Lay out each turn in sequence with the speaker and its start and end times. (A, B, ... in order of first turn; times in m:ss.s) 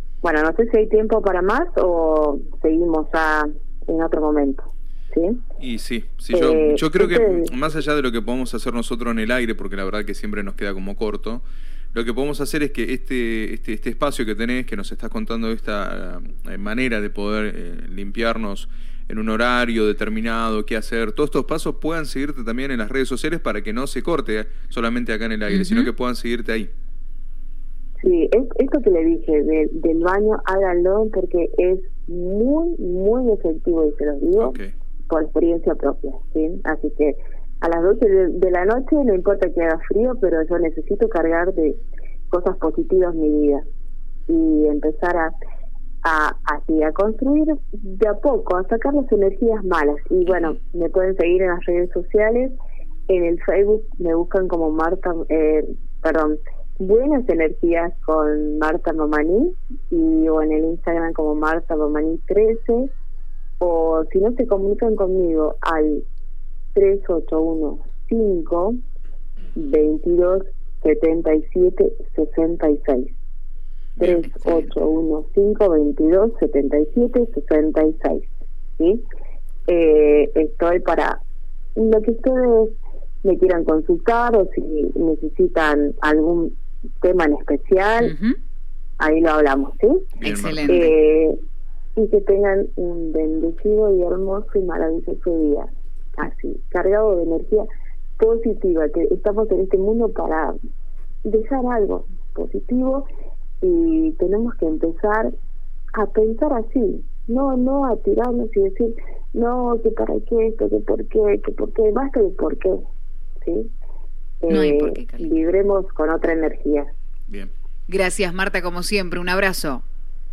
0:00.2-0:05.4 A
0:05.6-0:26.7 B
0:06.3-0:07.5 A
0:25.5-0:25.9 C
0:28.0-0:34.6 A
0:34.4-0:34.7 B
0:35.1-0:43.6 A
0:44.3-0:45.3 A
0:46.0-0:52.5 A
0:53.1-1:02.9 A
1:03.6-1:06.0 A
1:06.7-1:08.8 A
1:09.6-1:13.1 A
1:14.0-1:19.0 A
1:14.0-1:14.7 C
1:19.7-1:21.2 A
1:21.8-1:28.1 A
1:28.0-1:28.4 C
1:29.0-1:30.1 A
1:30.2-1:30.9 B
1:30.2-1:30.9 C
1:30.7-1:31.4 A
1:32.0-1:37.7 A
1:38.2-1:40.6 A
1:41.2-1:43.1 A
1:43.6-1:45.3 A
1:45.9-1:52.8 A
1:53.4-1:53.7 A
1:54.4-1:56.9 A
1:54.5-1:55.3 C
1:57.9-1:59.8 C